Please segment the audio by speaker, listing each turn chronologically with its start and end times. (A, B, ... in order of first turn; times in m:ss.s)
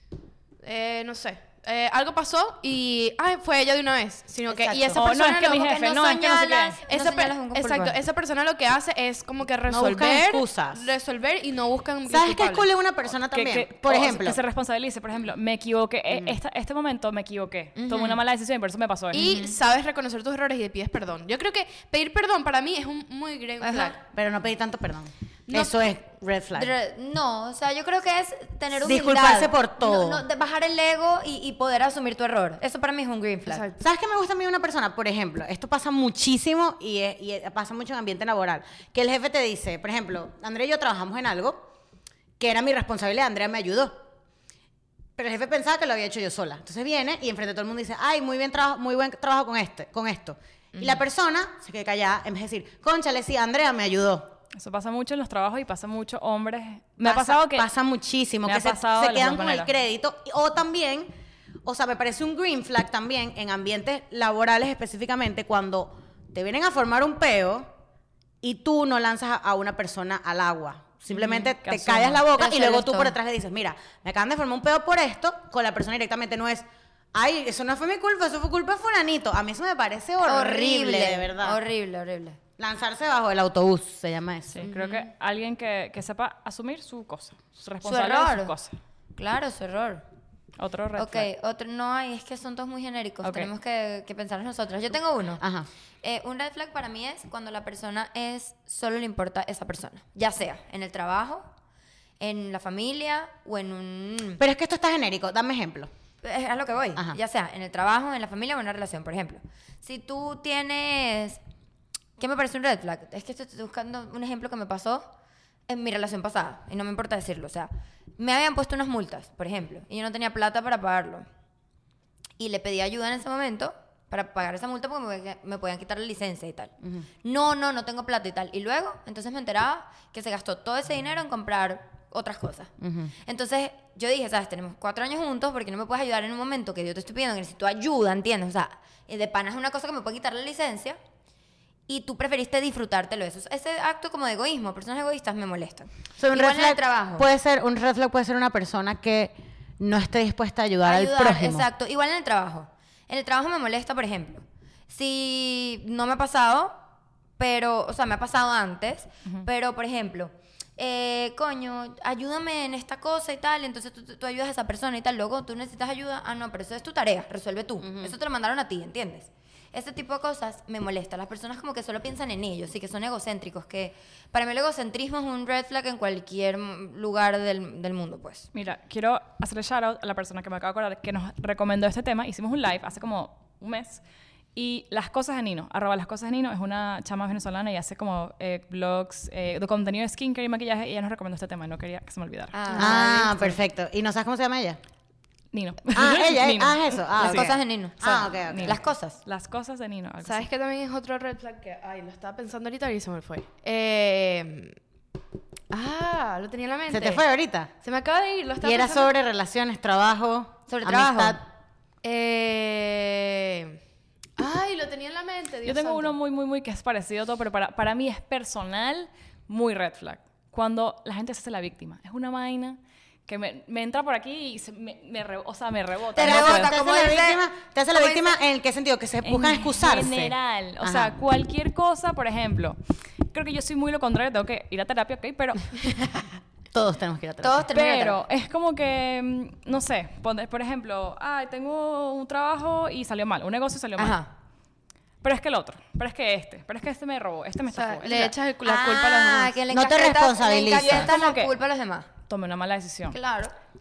0:00.6-0:05.7 A
0:04.5-0:08.0 B
0:04.9-0:06.8 C
0:06.9-0:12.6 A
0:09.7-0:10.9 D
0:12.1-0:14.4 D
0:13.3-0:19.4 C
0:17.8-0:18.2 B
0:19.1-0:24.0 A
0:19.1-0:19.6 B
0:23.6-0:24.0 B
0:24.1-0:26.7 D
0:26.5-0:33.6 B
0:28.7-0:30.2 D
0:33.5-0:33.8 A
0:33.8-0:41.6 D
0:42.4-0:44.0 D
0:45.2-0:54.3 D
0:54.5-0:57.7 C
0:57.0-1:01.1 D
0:58.4-0:59.7 C
1:01.6-1:07.7 D
1:08.4-1:21.6 D
1:11.3-1:12.2 C
1:12.3-1:13.2 B
1:20.2-1:22.4 B
1:22.6-1:24.7 D
1:24.5-1:28.7 C
1:24.6-1:25.1 B
1:27.8-1:28.5 B
1:29.2-1:30.0 B
1:30.6-1:31.3 C
1:31.0-1:35.4 B
1:33.2-1:33.5 C
1:35.4-1:35.7 D
1:36.0-1:41.5 B
1:42.2-1:44.4 B
1:44.4-1:45.9 D
1:46.2-1:51.4 B
1:52.2-1:55.1 B
1:55.7-2:01.3 B
2:02.4-2:12.7 B
2:12.8-2:13.1 D
2:13.2-2:21.0 B
2:21.9-2:27.3 B
2:26.2-2:31.7 D
2:30.8-2:36.8 B
2:37.4-2:58.5 B
2:47.8-2:48.1 D
2:58.5-3:04.0 C
3:04.6-3:12.6 C
3:12.5-3:13.6 B
3:12.7-3:14.8 D
3:15.5-3:17.5 C
3:15.9-3:18.8 D
3:17.2-3:19.2 B
3:18.0-3:20.5 C
3:20.2-3:24.8 A
3:25.7-3:27.2 A
3:26.9-3:27.7 D
3:27.8-3:29.1 A
3:28.6-3:31.4 D
3:30.7-3:31.4 B
3:32.0-3:33.8 A
3:34.4-3:36.2 A
3:35.6-3:46.7 C
3:46.2-3:48.4 B
3:46.2-3:51.1 D
3:49.2-3:52.8 C
3:53.3-3:55.7 C
3:56.7-3:57.7 D
3:57.4-3:58.2 B
3:57.7-4:04.2 C
4:04.0-4:04.3 B
4:05.2-4:08.3 C
4:07.9-4:09.6 A
4:08.6-4:12.1 B
4:09.7-4:11.1 D
4:10.8-4:11.5 C
4:12.3-4:13.2 C
4:13.1-4:13.5 B